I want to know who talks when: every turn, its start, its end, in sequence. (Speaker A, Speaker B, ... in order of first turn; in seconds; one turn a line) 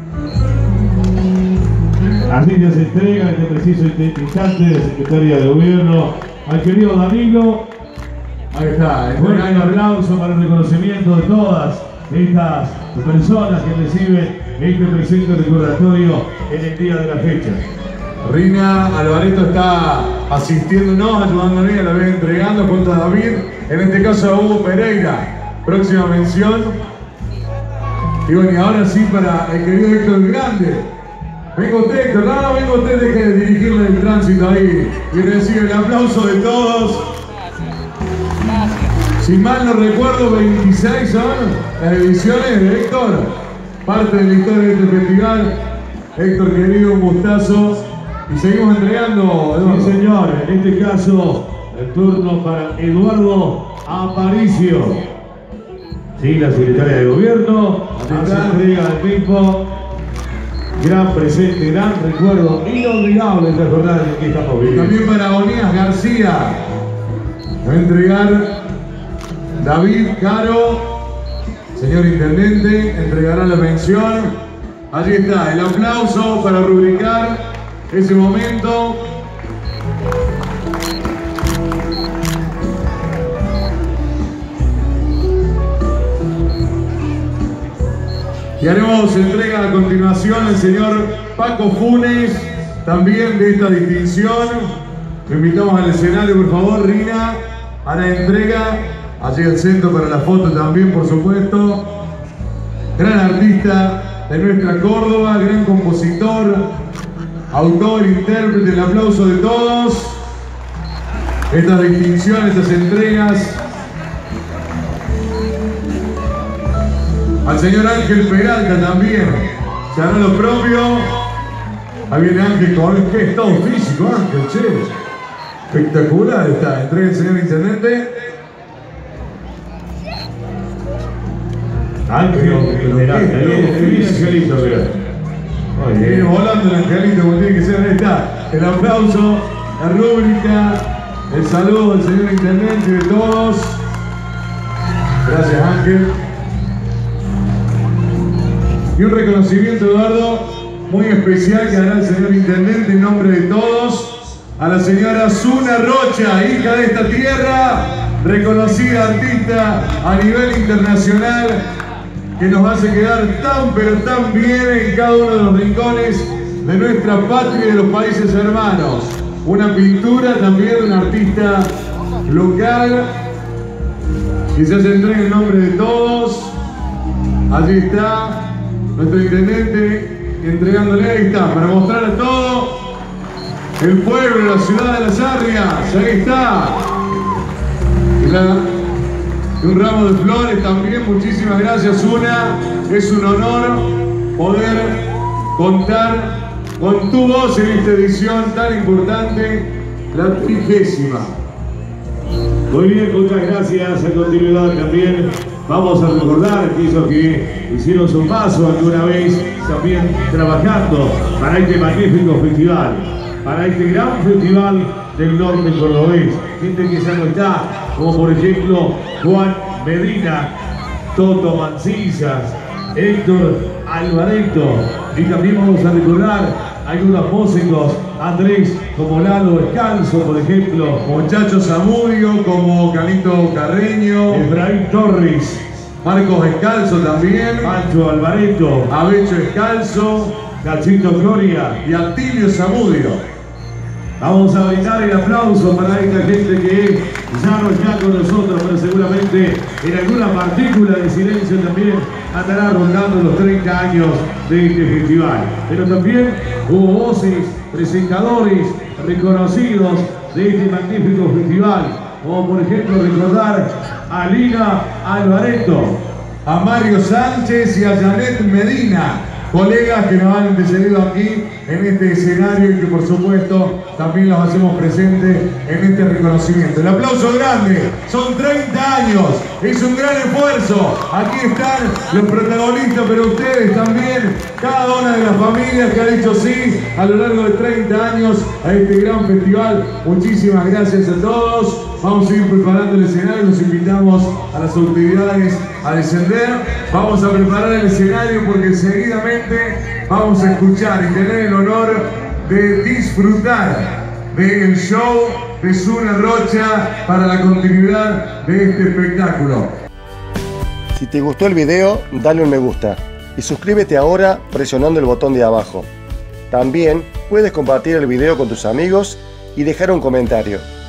Speaker A: 2.3-7.7
Speaker B: 8.5-9.7
Speaker A: 9.2-17.6
Speaker B: 18.2-26.8
Speaker B: 28.2-30.9
Speaker B: 31.6-37.0
Speaker B: 39.2-43.3
Speaker B: 43.9-45.5
Speaker B: 46.2-49.9
Speaker A: 49.6-55.1
Speaker A: 56.2-59.7
Speaker B: 58.0-58.6
Speaker A: 60.8-65.0
Speaker B: 64.7-66.7
Speaker B: 67.6-68.5
Speaker B: 69.6-71.0
Speaker B: 71.7-74.3
Speaker B: 74.9-79.1
Speaker B: 88.6-94.8
Speaker B: 95.3-101.9
Speaker B: 103.0-106.7
Speaker B: 107.5-110.2
Speaker B: 111.5-113.6
Speaker B: 117.5-121.1
Speaker B: 122.1-125.0
Speaker B: 125.7-128.1
Speaker A: 132.1-135.0
Speaker B: 132.4-134.2
Speaker A: 135.8-136.3
Speaker B: 136.1-143.8
Speaker B: 145.2-146.1
Speaker B: 148.9-161.7
Speaker B: 162.4-171.7
Speaker B: 172.2-173.1
Speaker B: 174.5-176.6
Speaker B: 177.5-182.8
Speaker B: 183.8-186.9
Speaker B: 188.2-188.7
Speaker B: 189.6-201.4
Speaker A: 202.7-220.5
Speaker A: 221.2-231.0
Speaker B: 231.1-234.4
Speaker A: 234.3-235.6
Speaker B: 236.0-237.7
Speaker A: 237.6-238.9
Speaker B: 238.9-240.4
Speaker A: 240.4-241.8
Speaker B: 241.8-243.2
Speaker A: 244.2-266.0
Speaker B: 266.4-309.7
Speaker C: 310.9-315.9
Speaker C: 316.5-320.7